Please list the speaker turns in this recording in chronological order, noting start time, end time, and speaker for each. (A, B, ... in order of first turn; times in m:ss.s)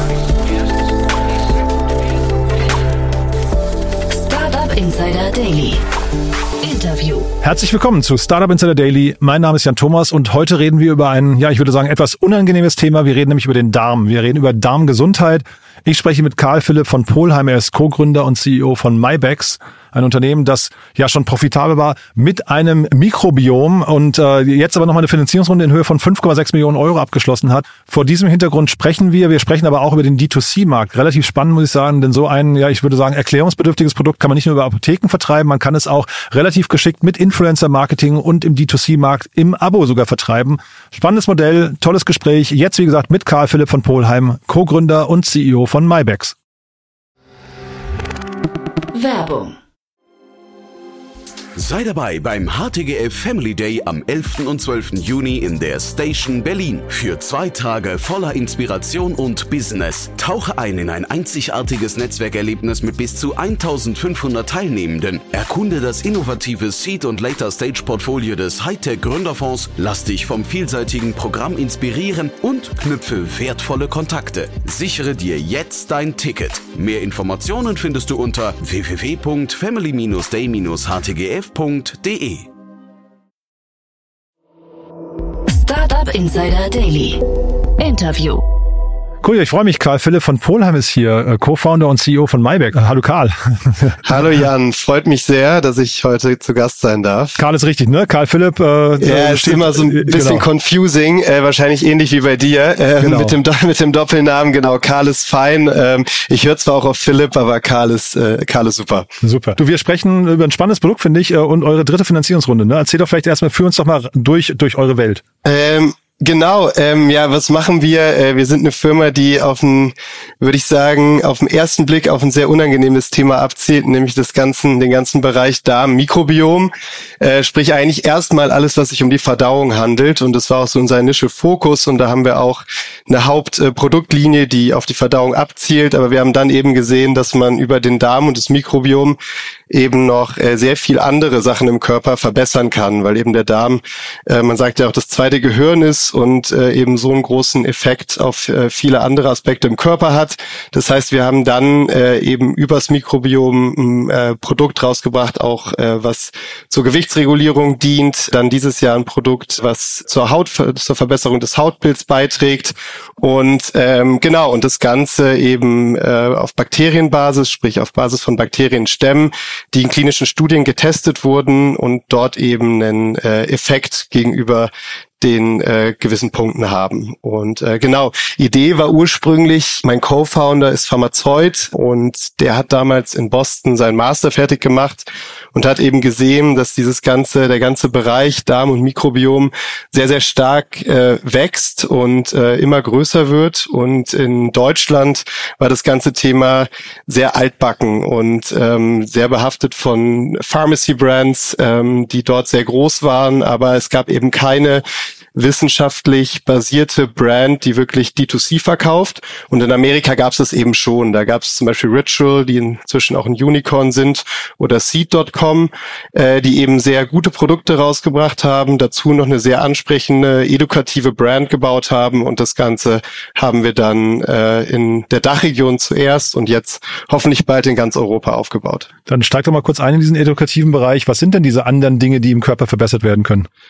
0:04.1-0:05.8 A
0:06.6-0:07.3 A
0:07.4-0:46.3 B
0:48.9-0:49.6 A
0:51.6-1:22.5 C
1:25.5-1:27.2 A
1:27.8-1:28.4 A
1:29.2-1:34.0 B
1:34.0-1:37.4 D
1:37.4-1:40.5 B
1:39.0-1:49.1 D
1:43.0-1:43.4 B
1:49.2-1:55.2 B
1:55.4-2:19.2 D
2:19.7-3:24.8 D
3:25.3-3:48.9 D
3:49.1-3:53.5 B